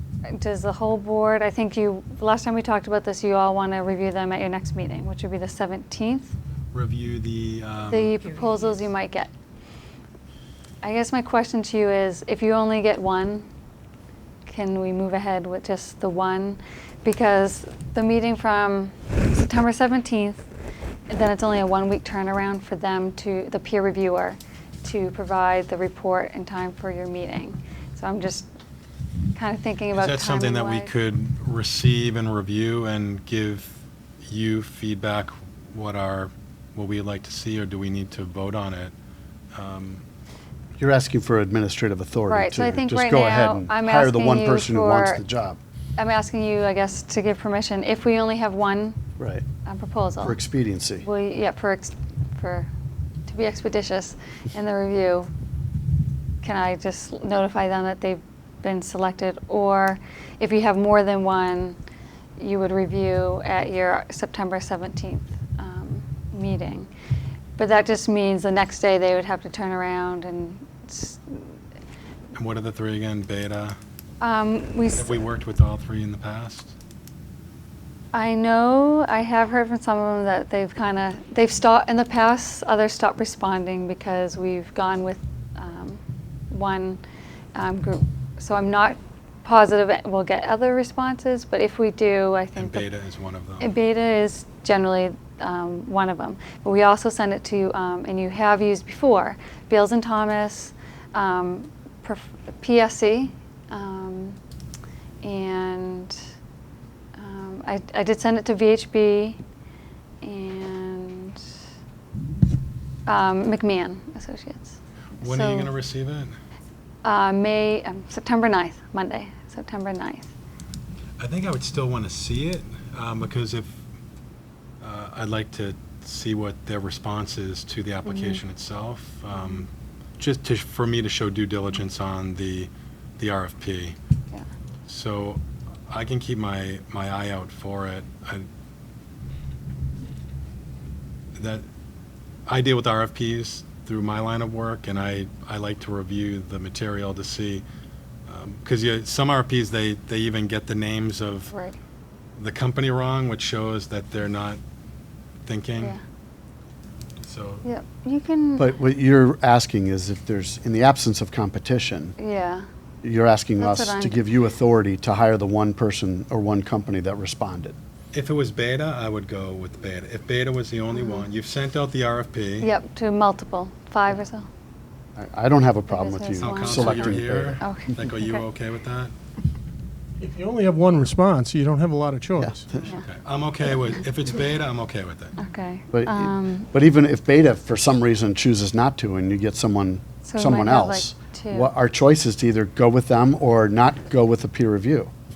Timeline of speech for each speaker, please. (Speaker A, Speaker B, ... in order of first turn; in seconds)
Speaker A: 0.3-6.3, 7.9-9.3, 10.8-13.5, 14.5-20.4, 21.1-28.5, 29.4-30.9, 42.3-45.2, 46.0-49.0, 49.6-50.4, 51.0-52.7, 53.3-55.3, 56.4-61.8, 62.4-66.9, 67.6-71.6, 74.2-75.2, 78.1-87.0, 87.5-92.9, 93.6-104.4, 105.2-106.2, 107.2-109.4, 110.2-111.4, 113.1-115.7, 117.0-120.3, 128.1-128.4, 151.5-151.8, 157.6-158.7, 162.2-162.7, 163.6-164.2, 170.9-171.3, 172.6-174.5, 175.9-178.4, 185.4-186.7, 190.2-191.7
Speaker B: 6.7-8.2, 29.9-38.9, 39.5-40.0, 72.3-73.8, 75.0-76.7, 92.6-93.7, 115.2-116.4, 121.2-123.8, 124.8-134.0, 134.9-138.5, 141.4-141.7, 142.5-147.6, 148.3-151.5, 152.4-154.6, 155.5-156.0, 157.2-157.7, 168.1-172.7, 176.4-179.1, 183.0-185.4
Speaker C: 40.8-45.6, 49.2-49.5, 50.2-51.1, 158.6-162.2, 163.0-167.8, 175.2-177.7, 182.4-182.9, 185.9-195.1
Speaker D: 180.2-182.7